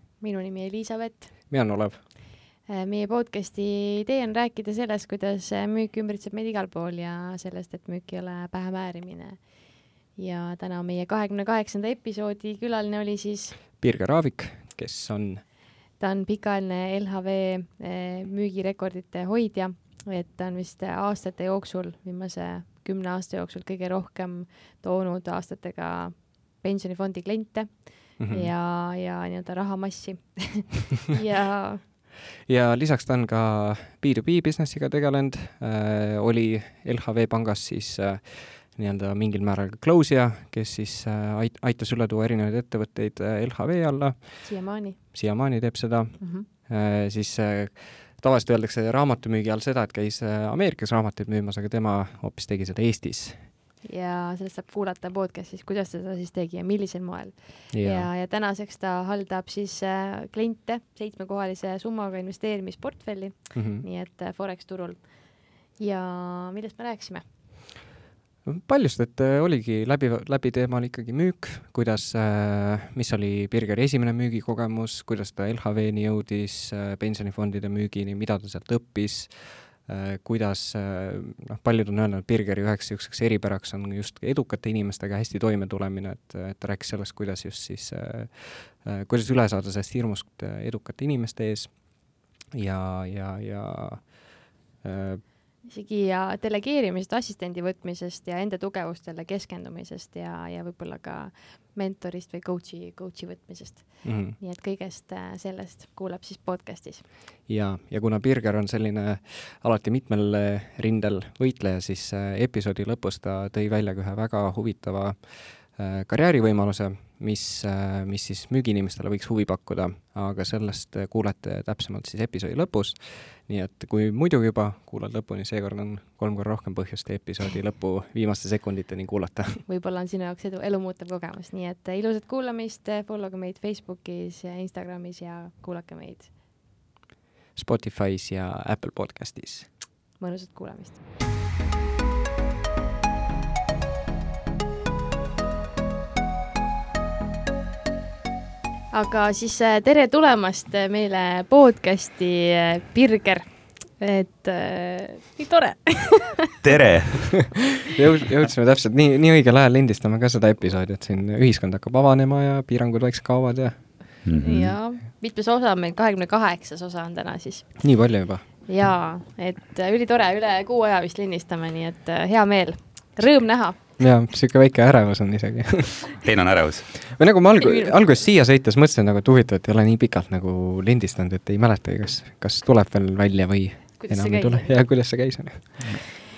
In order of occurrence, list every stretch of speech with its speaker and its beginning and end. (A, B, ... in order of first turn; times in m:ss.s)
0:00.2-0:01.5 A
0:01.5-0:02.0 B
0:02.2-0:13.6 A
0:13.8-0:15.4 B
0:16.0-0:31.8 A
0:28.2-0:28.5 B
0:32.4-0:53.5 B
0:44.4-0:45.1 A
0:46.2-0:46.5 A
0:53.8-1:07.3 A
0:57.7-0:58.1 B
1:03.5-1:03.8 B
1:08.4-1:35.2 B
1:35.6-1:47.0 A
1:44.0-1:44.4 B
1:47.5-2:09.6 B
2:09.6-2:16.4 A
2:17.6-2:19.7 B
2:20.2-2:21.0 A
2:28.9-2:36.6 A
2:36.6-2:37.6 C
2:37.8-2:44.2 B
2:44.2-2:44.8 C
2:44.3-2:48.1 A
2:47.8-2:48.5 B
2:48.6-2:53.8 A
2:54.0-2:56.2 B
2:56.2-2:56.9 C
2:57.0-3:05.9 B
2:57.6-2:58.1 A
3:04.0-3:05.2 A